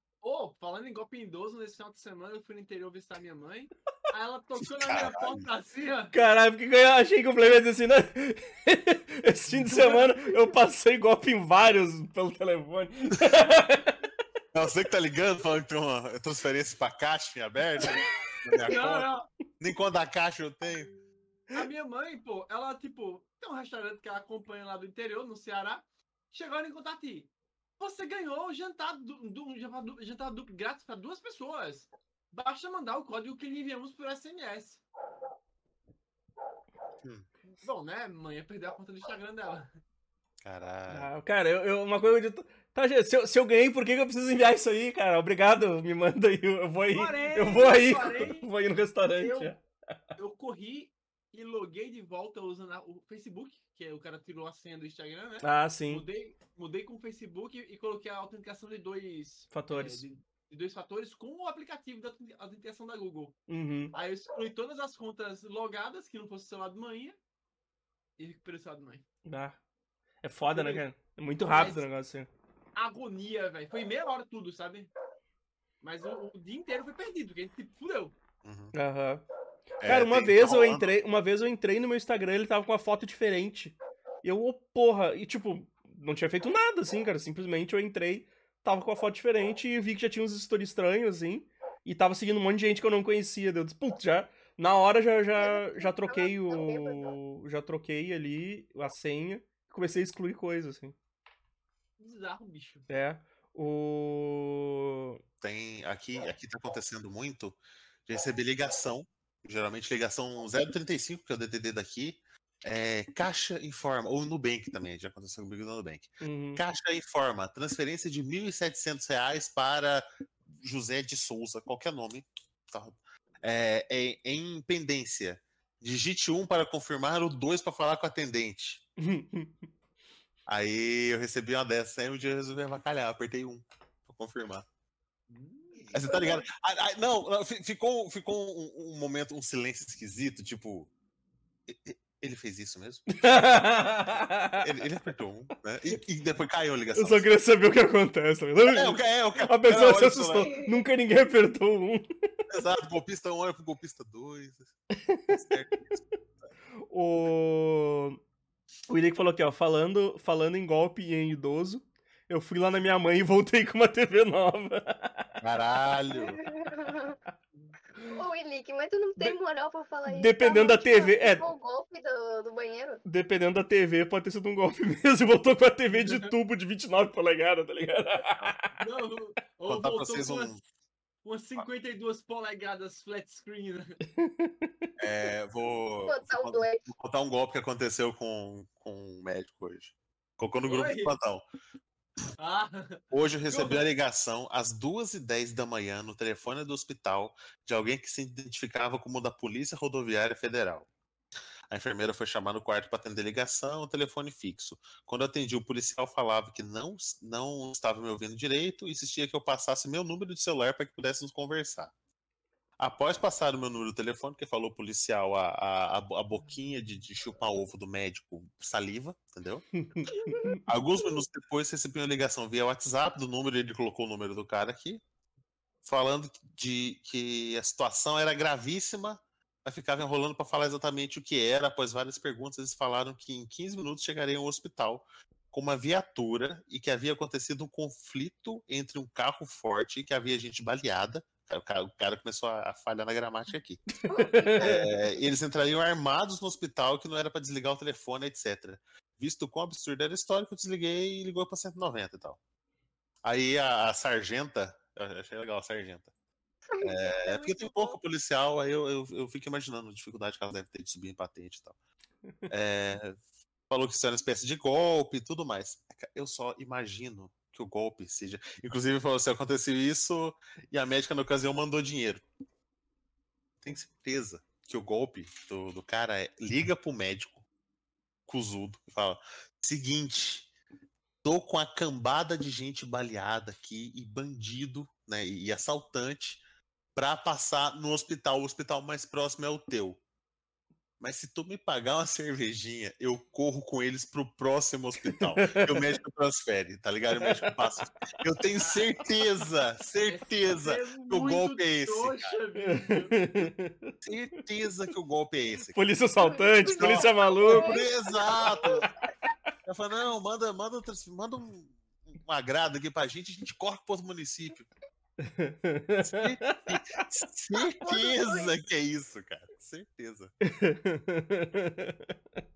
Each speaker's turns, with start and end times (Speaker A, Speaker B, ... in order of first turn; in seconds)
Speaker A: 0.2-6.1, 9.5-10.5, 18.6-19.3, 21.5-34.8, 37.6-39.8, 46.9-48.5, 49.0-49.5, 50.2-63.4, 63.9-67.2, 68.2-69.0, 70.5-70.8, 71.5-71.8, 72.7-74.9, 75.8-78.1, 102.0-102.8, 135.3-136.4, 175.9-176.3, 178.8-180.5, 181.2-183.9, 190.7-191.1, 192.4-193.8, 298.6-298.9, 300.0-303.2
Speaker B: 4.6-5.5, 14.5-20.9, 40.4-41.1, 78.4-78.7, 79.8-80.9, 105.4-128.8, 130.5-134.6, 135.9-140.9, 141.7-143.9, 144.6-147.3, 148.7-150.5, 152.5-154.7, 155.3-156.2, 165.4-166.4, 179.7-180.6, 185.0-191.4, 193.1-200.9, 201.7-211.9, 212.8-219.7, 220.7-225.0, 225.8-243.8, 244.6-252.4, 253.2-256.1, 256.8-261.8, 262.5-263.2, 263.7-272.2, 273.6-277.4, 278.2-280.5, 281.2-286.4, 286.9-290.0, 291.0-302.3, 304.0-305.8, 306.7-308.9, 309.6-314.7, 316.0-320.3
Speaker C: 6.1-14.0, 40.9-49.6, 55.4-56.0, 59.5-60.0, 63.5-63.9, 69.2-69.6, 70.2-72.3, 78.7-79.2, 79.8-100.9, 102.9-105.2, 116.2-116.6, 129.0-129.5, 143.2-144.6, 146.9-152.1, 154.9-155.4, 156.9-158.2, 158.9-165.4, 170.1-171.4, 173.1-178.7, 184.1-184.9, 219.8-220.6, 244.1-244.9, 295.0-295.9, 297.2-297.5, 302.6-303.9, 305.7-307.7, 315.2-317.0, 320.4-322.1
Speaker D: 95.3-97.1, 166.1-167.2, 168.0-173.0, 186.1-186.9, 220.1-220.5, 244.1-244.8, 256.7-258.0, 306.2-309.1, 317.5-318.5